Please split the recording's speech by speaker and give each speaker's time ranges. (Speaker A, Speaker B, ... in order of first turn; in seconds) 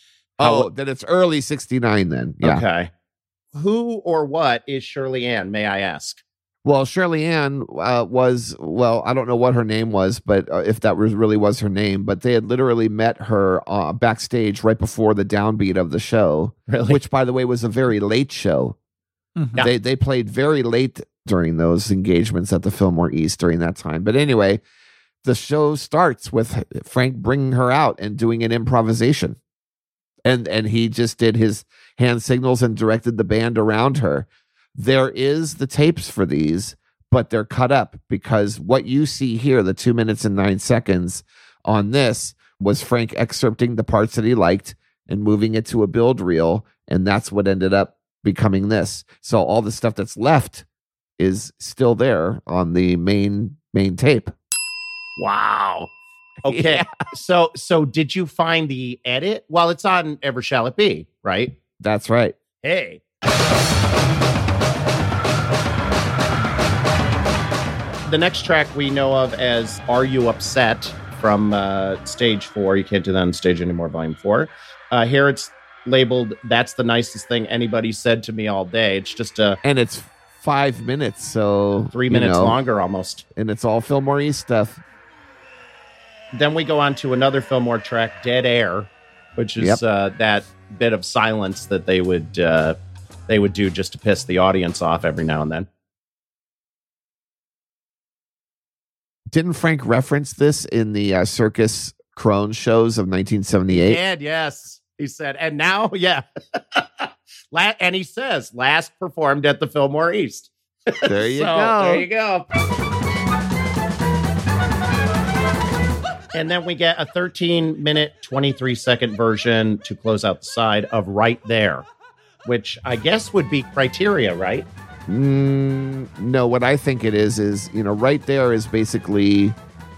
Speaker A: 0.4-0.7, 2.4-2.9, 3.5-6.2, 16.7-17.0, 55.2-55.9, 56.4-61.5, 62.6-63.0, 68.0-79.6, 81.9-83.2, 86.3-92.8, 93.3-95.7, 103.7-112.5, 116.3-121.8, 122.4-124.7
Speaker B: 0.4-2.6, 6.6-18.8, 19.6-24.6, 25.2-29.4, 30.2-50.6, 51.2-54.3, 56.4-56.9, 61.8-62.4, 79.6-82.5, 83.3-84.8, 99.3-104.0, 111.0-112.1, 125.1-129.6